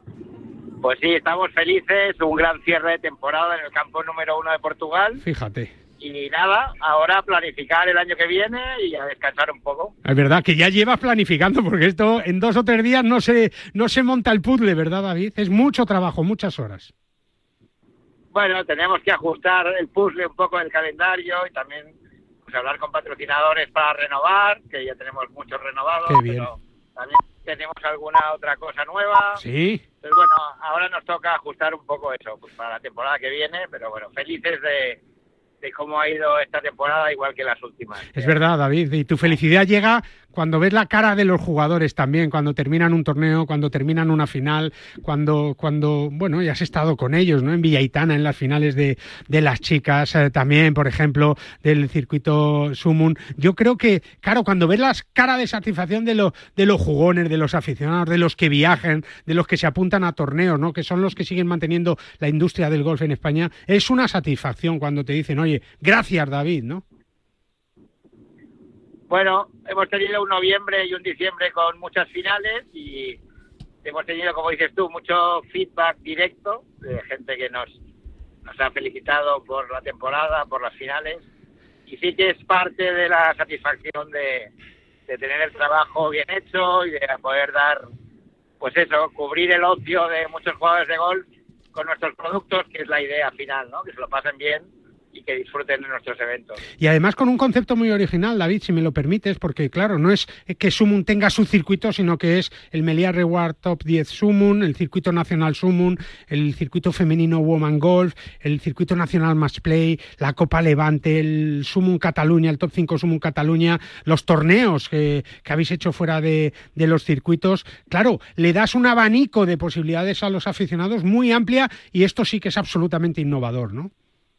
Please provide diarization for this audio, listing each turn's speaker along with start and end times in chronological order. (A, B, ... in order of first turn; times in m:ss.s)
0:00.8-0:05.2 A
0:05.2-0:05.7 B
0:06.0-0:09.9 A
0:10.0-0:16.9 B
0:18.3-0:21.9 A
0:22.5-0:29.4 A
0:26.1-0:26.5 B
0:29.4-0:29.8 B
0:30.0-0:35.0 A
0:35.6-0:38.3 A
0:38.1-1:06.8 B
1:09.1-1:13.2 A
1:13.8-1:17.7 A
1:18.5-1:21.2 A
1:21.9-1:24.5 A
1:25.1-1:27.8 A
1:28.6-1:36.6 A
1:36.8-2:03.9 B